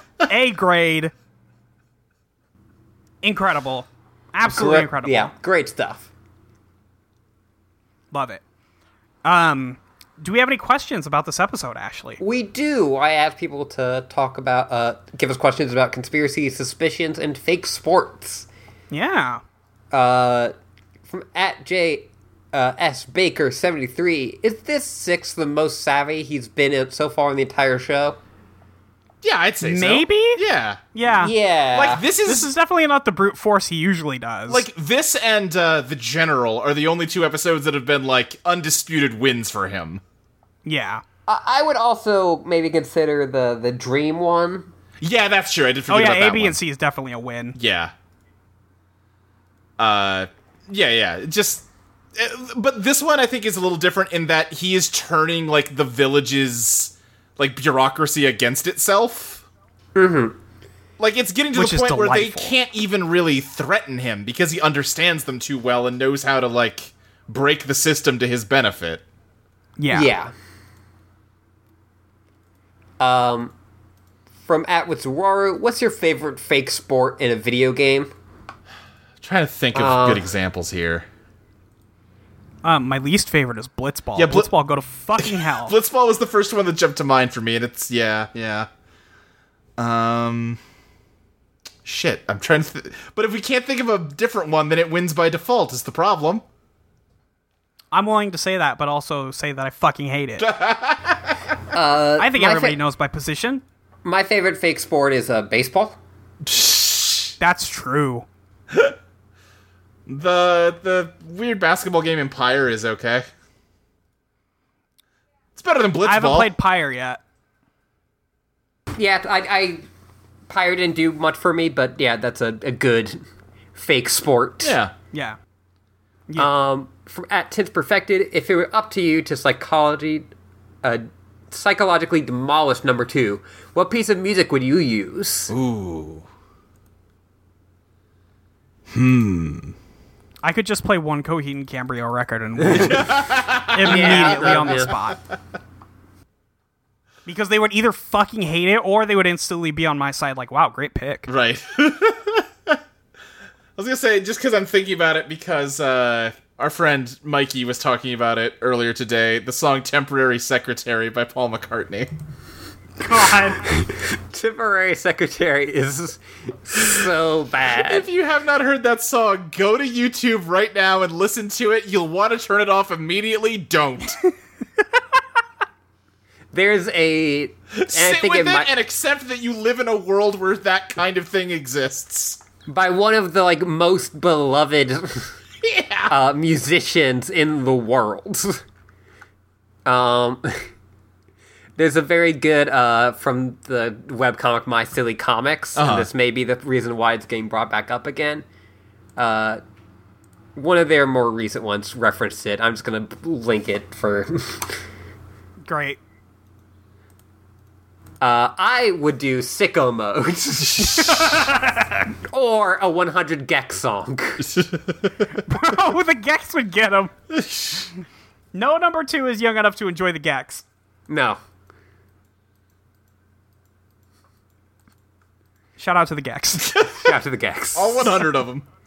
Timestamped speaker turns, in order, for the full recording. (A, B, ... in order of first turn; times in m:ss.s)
0:00.2-0:01.1 A
0:03.2-0:05.3 A
0:04.5-0:06.1 B
0:08.1-0:08.4 A
0:09.2-0:12.2 A
0:12.2-0:18.5 B
0:18.9-0:19.4 A
0:19.9-0:20.5 B
0:21.1-0:28.2 B
0:29.2-0:30.8 C
0:29.6-0:30.4 A
0:30.9-0:31.3 A
0:31.2-0:32.0 B
0:31.7-0:32.5 C
0:32.2-0:34.6 A
0:34.5-0:40.0 C
0:40.6-0:41.0 A
0:41.3-0:44.7 B
0:45.0-0:46.6 C
0:45.9-0:47.6 A
0:47.6-0:47.9 C
0:49.8-0:59.4 C
0:59.9-1:00.4 B
1:01.0-1:09.0 C
1:01.5-1:02.5 A
1:09.8-1:10.1 A
1:09.9-1:10.3 B
1:13.0-1:13.5 B
1:14.4-1:18.1 B
1:19.2-1:21.0 C
1:19.7-1:20.3 B
1:22.6-1:25.7 A
1:24.2-1:24.5 C
1:25.2-1:28.7 C
1:29.8-1:30.6 C
1:31.8-1:36.4 C
1:37.9-1:40.5 A
1:40.4-1:41.5 C
1:41.7-1:42.8 B
1:42.2-1:43.6 A
1:44.0-1:46.0 B
1:46.4-1:47.3 C
1:47.4-1:48.2 A
1:48.7-1:48.9 C
1:50.1-1:53.3 C
1:55.5-1:56.5 C
1:56.0-1:57.2 A
1:58.9-1:59.8 B
2:00.5-2:03.2 B
2:03.7-2:04.8 B
2:04.6-2:04.9 C
2:06.4-2:10.3 B
2:10.8-2:15.5 B
2:15.5-2:16.3 C
2:18.9-2:19.7 C
2:20.4-2:23.1 A
2:22.7-2:22.9 B
2:22.7-2:25.1 C
2:23.7-2:25.2 A
2:23.8-2:24.9 B
2:27.2-2:31.3 A
2:31.3-2:32.8 C
2:33.8-2:42.1 C
2:43.0-2:43.7 A
2:43.6-2:48.0 B
2:47.8-2:54.2 C
2:56.5-2:58.7 B
2:57.7-3:02.4 C
3:02.7-3:05.3 B
3:05.6-3:06.1 C
3:06.1-3:08.6 B
3:09.8-3:10.7 B
3:11.8-3:18.4 B
3:15.8-3:16.1 C
3:19.2-3:19.6 B
3:20.6-3:24.8 B
3:25.6-3:26.0 A
3:28.2-3:31.6 B
3:30.9-3:32.0 A
3:32.1-3:34.5 B
3:34.4-3:35.3 C
3:35.3-3:37.1 A
3:37.3-3:37.9 C
3:38.5-3:40.6 A
3:41.1-3:41.4 B
3:45.8-3:46.8 A
3:46.8-3:47.1 C
3:46.9-3:48.2 B
3:47.7-3:48.6 C